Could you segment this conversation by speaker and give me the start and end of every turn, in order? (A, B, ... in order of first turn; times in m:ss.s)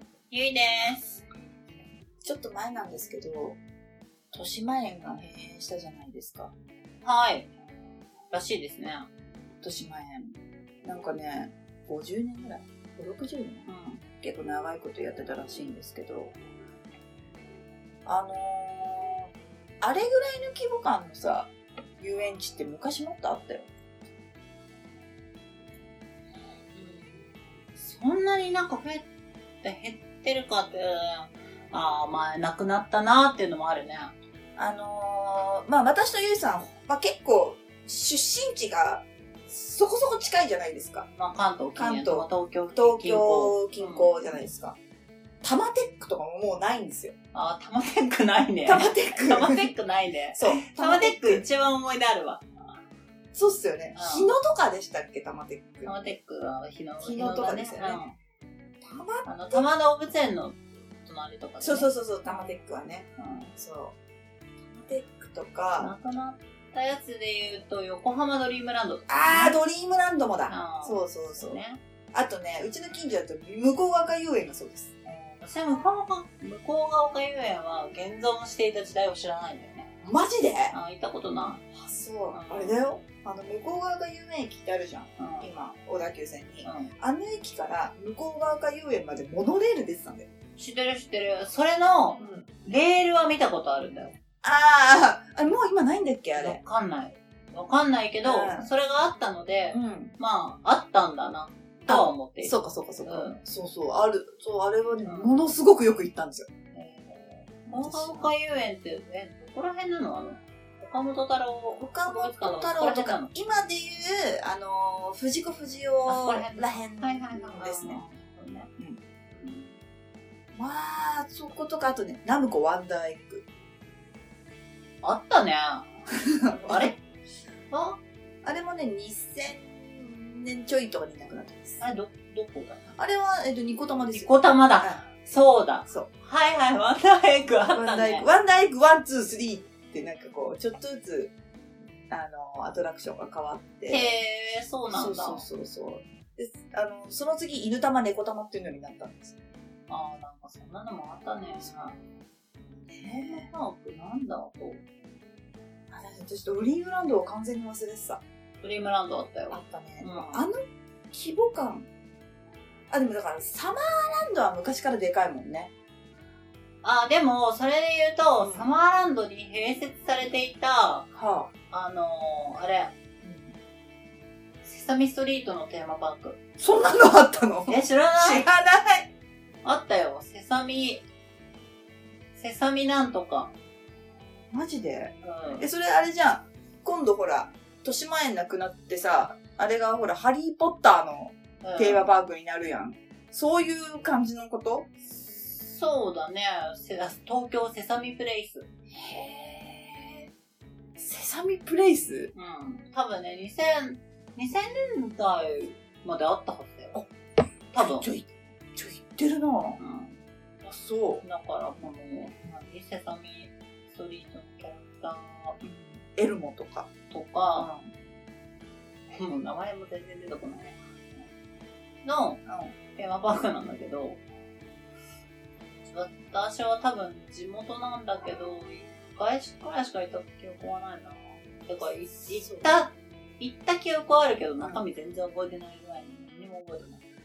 0:00.3-0:01.0 A
0:02.2-0:03.6 B
0:04.3-0:06.5 B
0:07.0-0:07.5 A
0:08.3-0:09.1 A
0:09.6-0:16.3 B
0:13.6-0:14.0 A
0:18.0-0:23.7 B
0:26.7-0:29.1 A
0:29.6-0:34.2 A
0:34.6-0:41.1 B
0:41.2-0:44.5 A
0:41.8-0:44.8 B
0:45.4-0:47.1 B
0:47.3-0:52.4 A
0:48.7-0:49.7 B
0:50.3-0:51.4 B
0:53.3-0:56.0 B
0:54.0-0:54.3 A
0:55.8-0:58.2 A
0:57.0-0:58.0 B
0:58.8-0:59.6 B
0:59.2-1:02.6 A
1:01.6-1:04.0 B
1:03.2-1:03.5 A
1:04.7-1:05.9 B
1:05.8-1:09.6 A
1:09.1-1:11.6 B
1:10.5-1:11.8 A
1:12.1-1:14.9 B
1:15.0-1:19.9 A
1:20.0-1:20.8 B
1:20.7-1:21.6 A
1:21.7-1:30.3 B
1:22.3-1:22.8 A
1:25.2-1:25.5 A
1:26.6-1:26.9 A
1:30.6-1:34.2 A
1:32.2-1:32.5 B
1:34.4-1:36.6 B
1:36.4-1:43.4 A
1:38.2-1:38.7 B
1:39.7-1:40.1 B
1:41.9-1:46.5 B
1:45.0-1:45.5 A
1:46.7-1:53.3 A
1:47.7-1:48.3 B
1:51.8-1:58.0 B
1:56.0-1:58.7 A
1:59.3-1:59.8 A
2:00.5-2:03.4 B
2:05.0-2:05.9 A
2:06.5-2:07.0 B
2:06.7-2:07.0 A
2:07.7-2:08.0 A
2:08.4-2:11.8 B
2:11.8-2:13.0 A
2:13.0-2:15.0 B
2:14.1-2:18.3 A
2:17.7-2:21.4 B
2:22.1-2:24.1 B
2:23.9-2:25.5 A
2:24.9-2:29.3 B
2:29.9-2:32.0 A
2:31.6-2:32.0 B
2:32.8-2:33.5 B
2:33.5-2:34.8 A
2:35.9-2:38.2 B
2:38.6-2:40.4 A
2:39.5-2:40.6 B
2:41.1-2:41.9 B
2:42.9-2:45.7 B
2:46.8-2:51.1 A
2:48.4-2:48.7 B
2:51.1-2:51.5 B
2:51.7-2:53.0 A
2:53.2-2:53.6 B
2:54.6-2:56.4 A
2:56.6-2:59.1 B
2:57.7-2:58.5 A
2:59.6-3:01.0 A
3:02.3-3:03.5 A
3:04.5-3:14.9 B
3:05.2-3:05.7 A
3:11.6-3:12.1 A
3:15.1-3:18.7 A
3:18.9-3:20.3 B
3:21.0-3:22.3 B
3:22.3-3:27.0 A
3:27.7-3:28.1 A
3:27.8-3:29.8 B
3:29.8-3:30.2 A
3:30.6-3:31.2 B
3:31.2-3:35.6 A
3:35.6-3:36.9 B
3:37.1-3:37.7 A
3:37.6-3:37.9 B
3:39.1-3:41.3 A
3:42.0-3:42.4 A
3:42.4-3:42.8 B
3:43.0-3:44.2 A
3:45.9-3:57.0 A
3:51.8-3:52.8 B
3:54.6-3:54.8 B